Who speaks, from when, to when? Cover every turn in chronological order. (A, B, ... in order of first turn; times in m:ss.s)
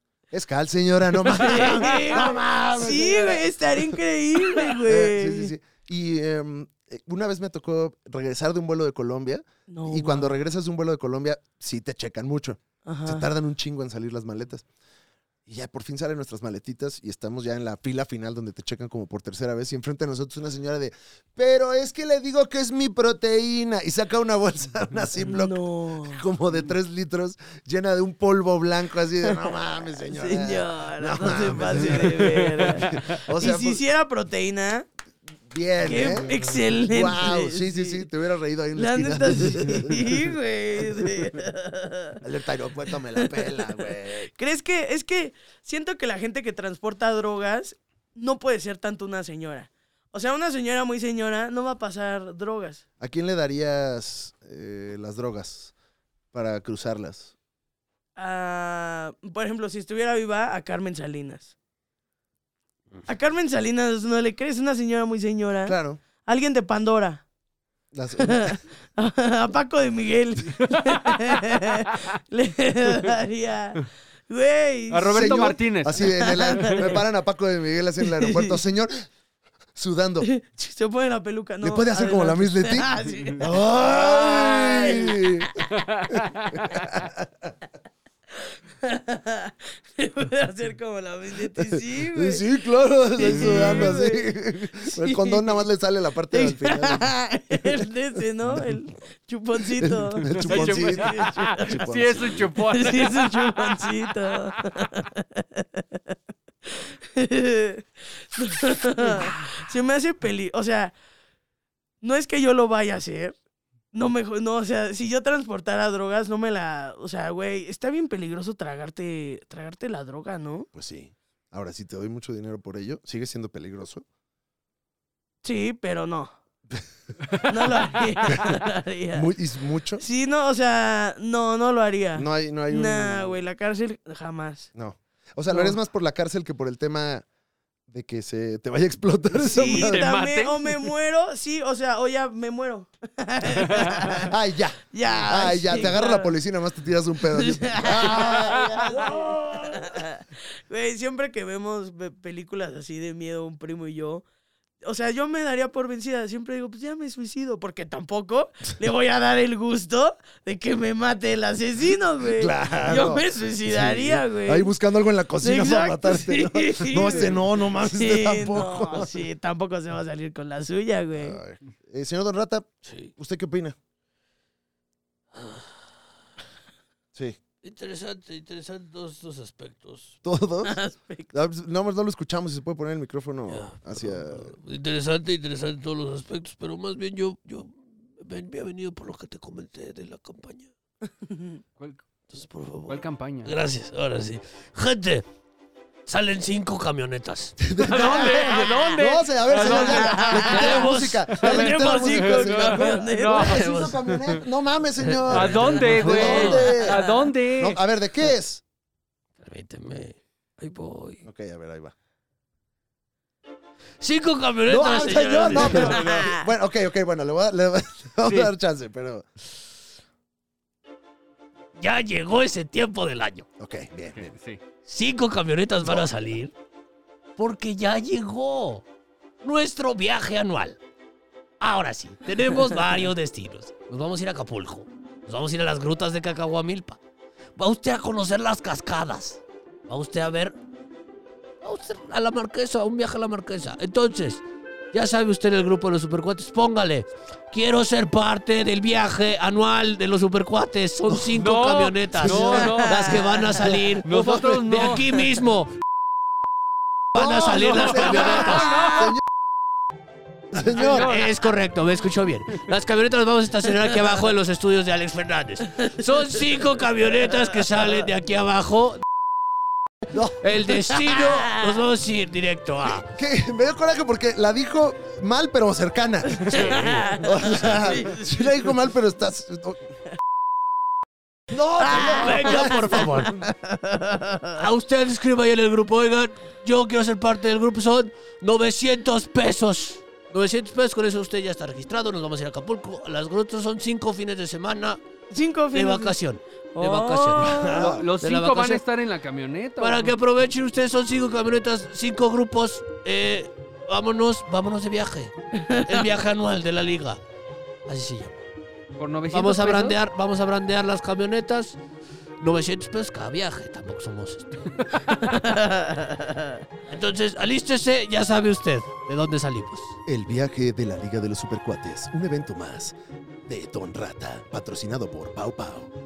0:00.3-0:03.4 A
0:01.3-0:05.5 B
0:04.5-0:14.6 A
0:09.7-0:10.4 B
0:12.8-0:13.3 B
0:15.5-0:33.8 A
0:25.2-0:26.2 B
0:29.2-0:34.9 B
0:35.5-0:41.2 A
0:35.8-0:38.0 B
0:38.7-0:42.2 B
0:42.2-0:44.3 A
0:43.1-0:52.8 B
0:53.0-0:55.7 A
0:56.3-0:57.3 A
0:58.2-1:01.5 B
1:03.1-1:07.2 B
1:05.6-1:06.0 A
1:07.9-1:08.6 A
1:08.2-1:17.0 B
1:14.9-1:16.8 C
1:15.1-1:19.1 A
1:18.0-1:18.6 B
1:19.7-1:20.3 A
1:20.2-1:25.4 B
1:21.6-1:27.5 A
1:25.6-1:26.8 C
1:28.8-1:32.4 B
1:31.6-1:37.7 A
1:33.1-1:35.6 B
1:33.4-1:33.8 C
1:36.3-1:41.8 B
1:39.7-1:42.5 A
1:40.2-1:43.6 C
1:42.7-1:46.0 B
1:46.6-1:50.9 B
1:52.0-1:53.4 B
1:53.9-2:00.7 B
2:00.7-2:04.0 A
2:05.4-2:06.3 B
2:07.5-2:09.3 B
2:08.2-2:08.6 A
2:09.1-2:10.0 A
2:10.0-2:14.7 B
2:12.2-2:13.3 A
2:14.7-2:17.2 A
2:15.5-2:15.8 B
2:17.9-2:20.0 A
2:19.4-2:24.3 B
2:19.5-2:20.8 C
2:23.6-2:24.1 C
2:24.1-2:29.8 A
2:24.9-2:26.3 B
2:27.3-2:34.2 B
2:34.8-2:44.7 B
2:42.2-2:49.3 A
2:45.4-2:51.4 B
2:51.1-2:53.8 A
2:52.8-2:53.1 D
2:55.3-2:55.9 D
2:57.6-3:00.2 D
3:00.2-3:00.8 A
3:00.6-3:01.3 B
3:01.3-3:04.5 A
3:03.5-3:10.7 D
3:11.2-3:11.6 B
3:11.8-3:12.0 C
3:12.3-3:15.2 D
3:12.9-3:13.5 C
3:16.1-3:17.6 D
3:17.6-3:28.6 A
3:17.8-3:24.1 C
3:17.9-3:18.9 B
3:19.6-3:20.9 B
3:20.3-3:22.4 D
3:21.4-3:23.9 B
3:23.4-3:24.3 D
3:25.0-3:27.0 D
3:25.3-3:27.8 C
3:26.1-3:27.3 B
3:29.4-3:31.2 D
3:31.2-3:31.9 A
3:34.0-3:36.1 D
3:34.7-3:39.2 A
3:35.7-3:36.4 B
3:38.2-3:38.5 C
3:41.8-3:43.5 D
3:43.6-3:44.3 A
3:44.1-3:44.6 C
3:44.8-3:46.5 D
3:45.8-3:46.1 A
3:47.4-3:48.8 D
3:49.4-3:50.8 D
3:51.6-3:57.0 D
3:57.6-4:00.6 D
4:01.6-4:15.7 D
4:11.2-4:15.1 C
4:12.1-4:13.9 A
4:12.6-4:13.2 B
4:17.1-4:19.0 D
4:17.1-4:19.2 A
4:17.2-4:19.1 C
4:20.5-4:21.2 A
4:20.6-4:21.3 C
4:20.6-4:29.0 D
4:30.1-4:30.5 A
4:30.4-4:33.1 D
4:31.2-4:31.6 B
4:32.8-4:39.8 A
4:36.3-4:38.5 B
4:36.5-4:37.3 D
4:41.5-4:43.3 A
4:41.8-4:44.6 B
4:41.8-4:43.4 D
4:44.5-4:55.0 D
4:55.3-4:56.1 B
4:55.7-4:58.8 D
4:56.7-4:57.8 B
4:57.4-4:58.1 A
4:57.7-5:00.1 C
4:59.8-5:07.2 D
5:05.6-5:06.0 B
5:07.9-5:08.4 D
5:09.0-5:10.0 C
5:09.3-5:11.8 D
5:12.4-5:15.2 D
5:15.2-5:16.6 B
5:16.9-5:20.0 D
5:20.0-5:22.9 A
5:23.4-5:25.9 A